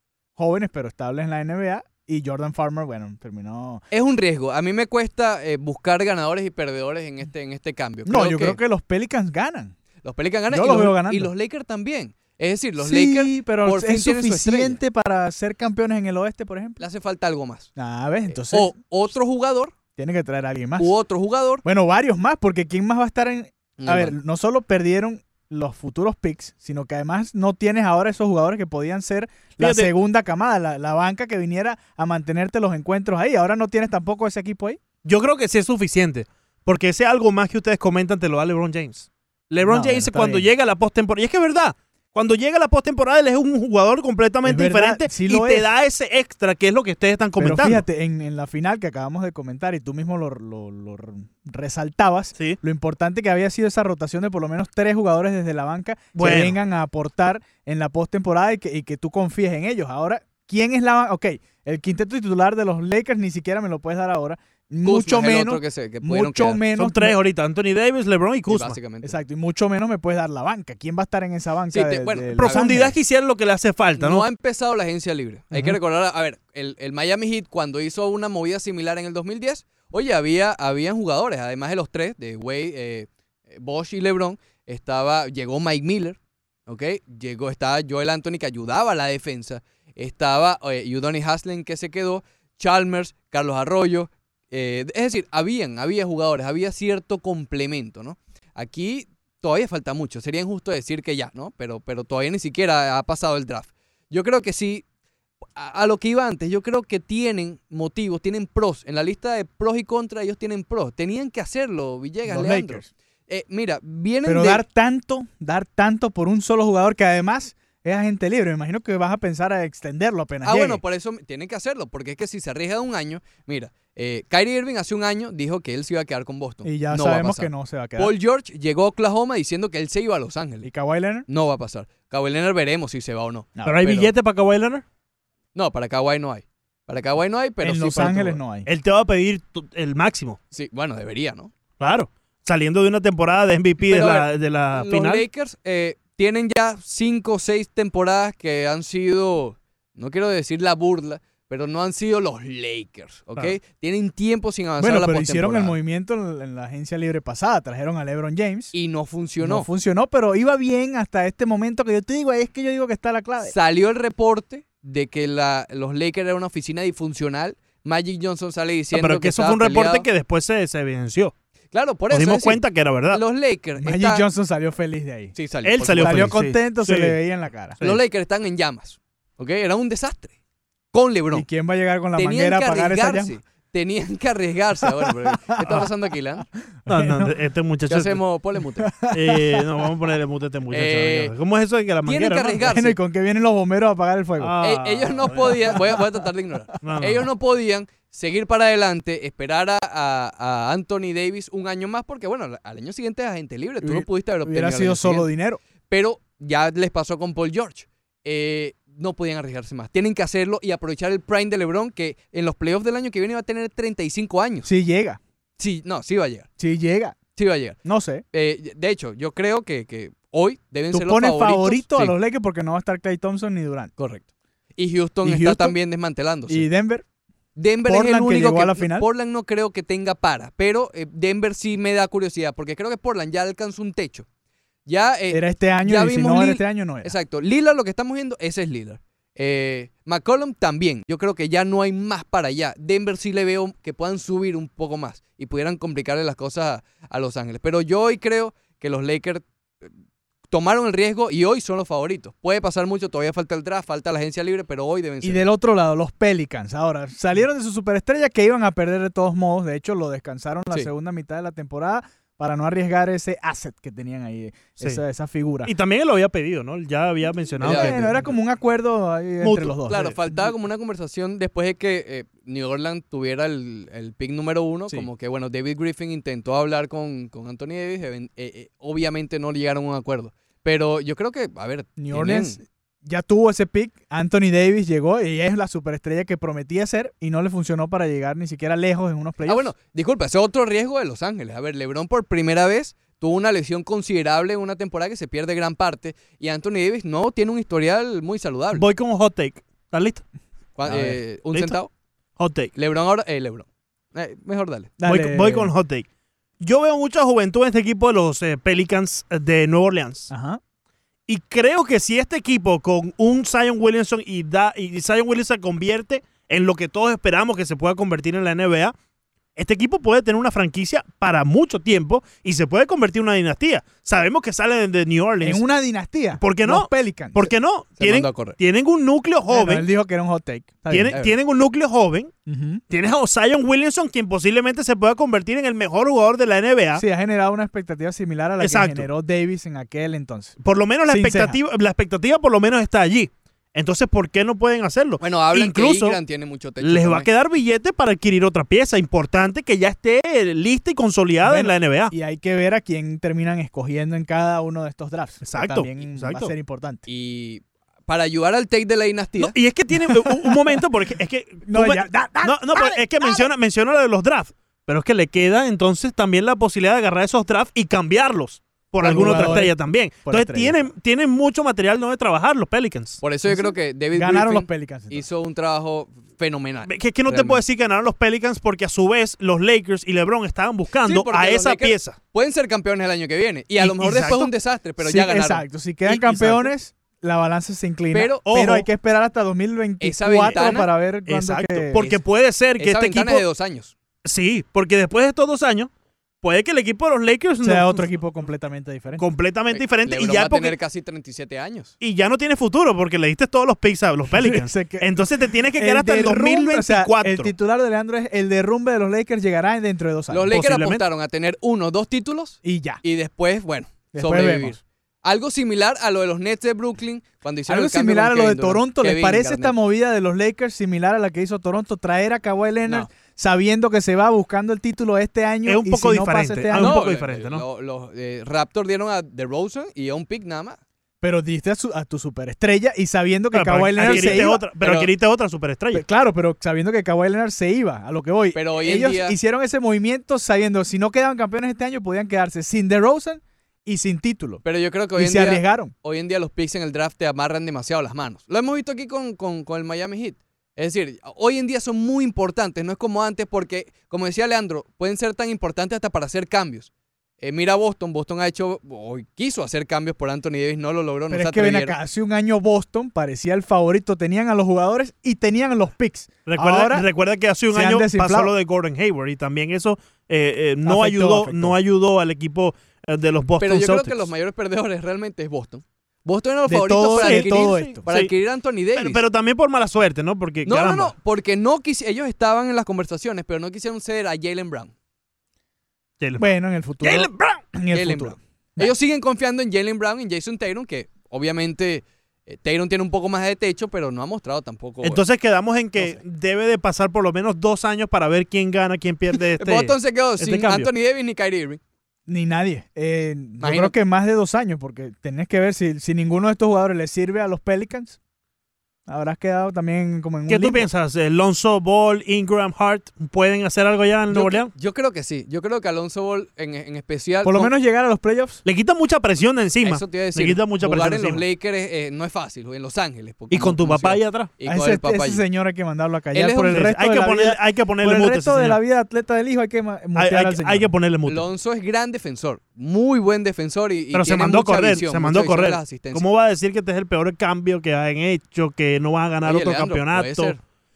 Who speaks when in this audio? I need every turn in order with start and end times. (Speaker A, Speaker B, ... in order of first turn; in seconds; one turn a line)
Speaker A: 0.4-3.8
Speaker B: 3.9-8.6
Speaker A: 8.1-9.8
Speaker B: 10.0-14.8
Speaker A: 10.5-11.3
Speaker A: 12.8-16.8
Speaker B: 16.8-17.7
Speaker A: 17.8-18.7
Speaker B: 18.3-19.8
Speaker A: 20.0-20.9
Speaker B: 20.8-21.6
Speaker A: 21.6-34.8
Speaker B: 23.8-24.1
Speaker C: 29.6-29.9
Speaker C: 35.0-47.8
Speaker A: 39.6-40.5
Speaker A: 44.5-45.7
Speaker A: 47.4-67.2
Speaker C: 56.2-56.6
Speaker B: 64.8-66.6
Speaker C: 66.7-68.8
Speaker B: 68.5-69.2
Speaker A: 69.0-73.0
Speaker B: 71.7-72.7
Speaker C: 72.4-74.3
Speaker B: 74.0-104.8
Speaker B: 105.6-114.6
Speaker A: 112.3-112.9
Speaker A: 114.3-120.8
Speaker B: 120.4-130.7
Speaker A: 126.6-128.1
Speaker A: 130.6-131.3
Speaker B: 131.3-134.1
Speaker A: 133.6-133.8
Speaker C: 133.7-134.8
Speaker B: 135.6-138.4
Speaker A: 137.6-138.7
Speaker C: 138.7-140.4
Speaker B: 140.5-141.5
Speaker C: 141.8-145.3
Speaker B: 143.8-155.8
Speaker A: 154.8-158.7
Speaker B: 158.7-159.7
Speaker A: 159.4-163.5
Speaker B: 163.4-170.1
Speaker C: 168.9-171.3
Speaker B: 171.7-174.2
Speaker C: 172.1-173.2
Speaker A: 173.8-175.3
Speaker B: 175.3-176.3
Speaker C: 175.7-177.2
Speaker A: 176.0-177.8
Speaker B: 177.8-180.3
Speaker B: 180.9-181.5
Speaker A: 181.3-183.3
Speaker B: 182.2-186.5
Speaker A: 185.0-185.8
Speaker A: 186.8-187.3
Speaker C: 186.9-188.2
Speaker B: 187.9-188.9
Speaker A: 188.8-189.7
Speaker C: 189.1-192.6
Speaker B: 190.7-191.3
Speaker B: 192.1-193.0
Speaker A: 192.6-194.6
Speaker C: 194.4-195.8
Speaker B: 194.6-205.3
Speaker A: 195.3-196.0
Speaker C: 196.8-197.3
Speaker A: 203.8-205.6
Speaker B: 205.9-214.7
Speaker A: 214.7-215.2
Speaker B: 215.6-216.5
Speaker A: 216.6-217.2
Speaker B: 217.3-217.8
Speaker A: 217.8-218.2
Speaker B: 218.3-222.2
Speaker A: 220.9-223.9
Speaker B: 224.0-224.3
Speaker B: 224.8-226.7
Speaker A: 225.2-225.8
Speaker A: 226.5-227.1
Speaker B: 227.6-234.3
Speaker A: 227.9-229.1
Speaker B: 234.9-249.9
Speaker A: 235.3-237.2
Speaker B: 250.5-255.4
Speaker A: 255.2-265.7
Speaker C: 265.6-268.2
Speaker B: 267.6-268.1
Speaker A: 267.6-270.2
Speaker C: 269.4-269.8
Speaker B: 269.9-282.6
Speaker A: 282.0-289.7
Speaker B: 289.4-298.9
Speaker C: 298.7-300.2
Speaker B: 300.8-301.9
Speaker C: 300.9-301.8
Speaker C: 302.4-302.7
Speaker B: 302.8-304.9
Speaker A: 305.0-305.7
Speaker C: 305.1-306.1
Speaker C: 306.6-310.3
Speaker A: 310.3-310.6
Speaker C: 311.3-318.9
Speaker C: 319.6-325.6
Speaker A: 325.4-327.5
Speaker C: 326.4-329.9
Speaker B: 328.0-328.6
Speaker A: 329.5-331.2
Speaker C: 330.9-332.3
Speaker B: 331.1-331.4
Speaker A: 332.5-332.8
Speaker C: 332.9-337.0
Speaker A: 337.0-340.6
Speaker C: 338.6-339.1
Speaker C: 340.6-346.2
Speaker A: 341.1-341.6
Speaker B: 345.2-347.3
Speaker C: 346.8-352.1
Speaker A: 351.4-357.0
Speaker C: 355.4-356.5
Speaker B: 357.1-359.5
Speaker C: 359.4-373.2
Speaker A: 359.9-360.8
Speaker A: 361.7-363.5
Speaker A: 369.0-370.9
Speaker B: 373.2-377.6
Speaker A: 373.5-375.3
Speaker C: 376.9-382.2
Speaker B: 381.0-386.1
Speaker C: 383.8-384.5
Speaker A: 385.0-392.0
Speaker C: 386.2-386.6
Speaker B: 388.1-388.5
Speaker C: 388.5-388.9
Speaker B: 390.0-390.9
Speaker C: 391.3-393.4
Speaker B: 392.8-393.9
Speaker C: 394.2-395.9
Speaker C: 396.4-398.1
Speaker A: 397.6-399.2
Speaker C: 399.2-400.8
Speaker B: 399.7-401.9
Speaker C: 402.0-407.5
Speaker A: 404.3-410.5
Speaker B: 410.3-419.8
Speaker C: 410.5-411.1
Speaker A: 412.6-413.0
Speaker A: 414.1-414.8
Speaker A: 417.7-427.0
Speaker C: 425.7-427.6
Speaker B: 426.8-430.8
Speaker A: 431.2-434.6
Speaker C: 433.5-436.1
Speaker B: 434.0-435.1
Speaker A: 435.9-444.6
Speaker B: 438.5-439.4
Speaker B: 444.6-461.9
Speaker A: 445.2-445.9
Speaker A: 461.3-467.1
Speaker C: 466.5-474.3
Speaker A: 467.7-468.5
Speaker A: 470.8-471.8
Speaker B: 473.6-479.2
Speaker A: 476.7-478.0
Speaker C: 477.2-478.3
Speaker C: 479.0-481.1
Speaker B: 480.6-484.9
Speaker C: 486.2-486.5
Speaker A: 486.4-488.9
Speaker C: 487.0-487.6
Speaker B: 487.9-495.2
Speaker C: 495.0-500.9
Speaker B: 499.3-501.8
Speaker A: 502.3-508.2
Speaker B: 503.6-503.9
Speaker A: 509.1-510.9
Speaker C: 510.5-514.7
Speaker B: 514.3-517.7
Speaker A: 517.4-518.6
Speaker C: 518.6-521.4
Speaker B: 519.8-525.4
Speaker C: 523.5-524.5
Speaker A: 524.6-530.9
Speaker B: 526.3-526.9
Speaker C: 526.7-528.8
Speaker C: 530.1-531.5
Speaker B: 531.3-536.2
Speaker C: 534.1-540.6
Speaker B: 539.4-540.6